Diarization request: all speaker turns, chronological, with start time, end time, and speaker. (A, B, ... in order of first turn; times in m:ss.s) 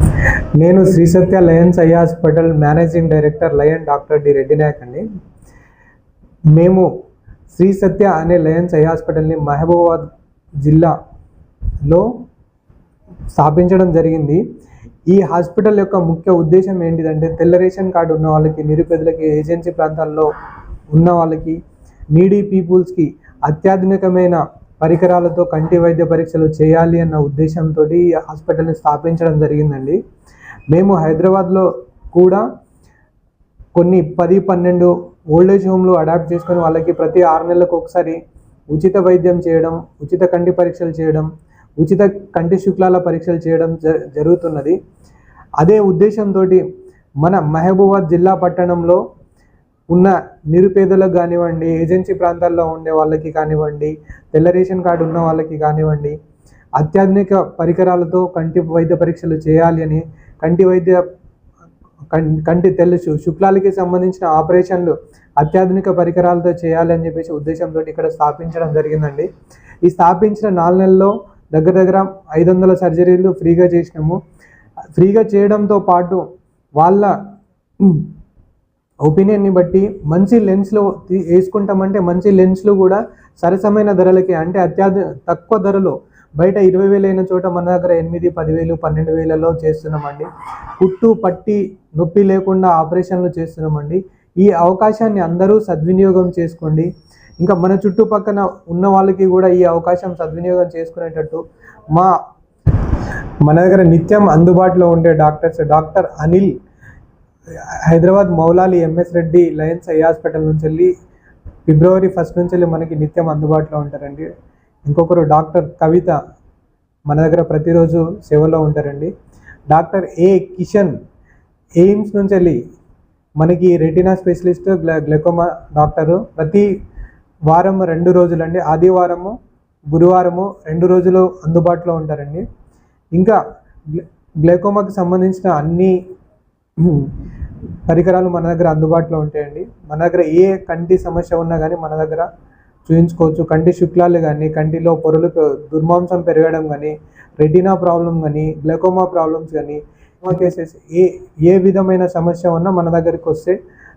0:00.6-0:05.0 A
0:06.5-0:06.9 A
0:07.5-0:10.1 A
0:10.6-0:10.9 A
0:13.3-0:14.4 A
0:15.1-0:20.3 A
0:20.9-0:21.6 A
0:22.1-0:30.0 A
0:30.7-0:32.4 A
0:33.7-0:38.2 A
0:38.7-0:41.3 A
0:41.8-0:44.8 A
0:45.6-0:46.6 A
0:47.2-0:49.0 A
0:49.9-0:56.2 A
0:56.8-1:01.0 A
1:02.1-1:09.3 A
1:09.8-1:14.2 A
1:14.9-1:16.2 A
1:16.8-1:17.1 A
1:17.8-1:18.1 A
1:19.0-1:36.9 A
1:37.4-1:42.1 A
1:43.4-1:46.5 A
1:47.9-1:50.9 A
1:51.7-1:54.3 A
1:54.8-1:56.2 A
1:57.1-1:59.1 A
1:59.7-2:00.9 A
2:01.8-2:02.6 A
2:03.4-2:06.7 A
2:07.5-2:09.3 A
2:09.9-2:12.4 A
2:13.1-2:15.9 A
2:16.8-2:17.2 A
2:17.9-2:22.3 A
2:22.8-2:33.6 A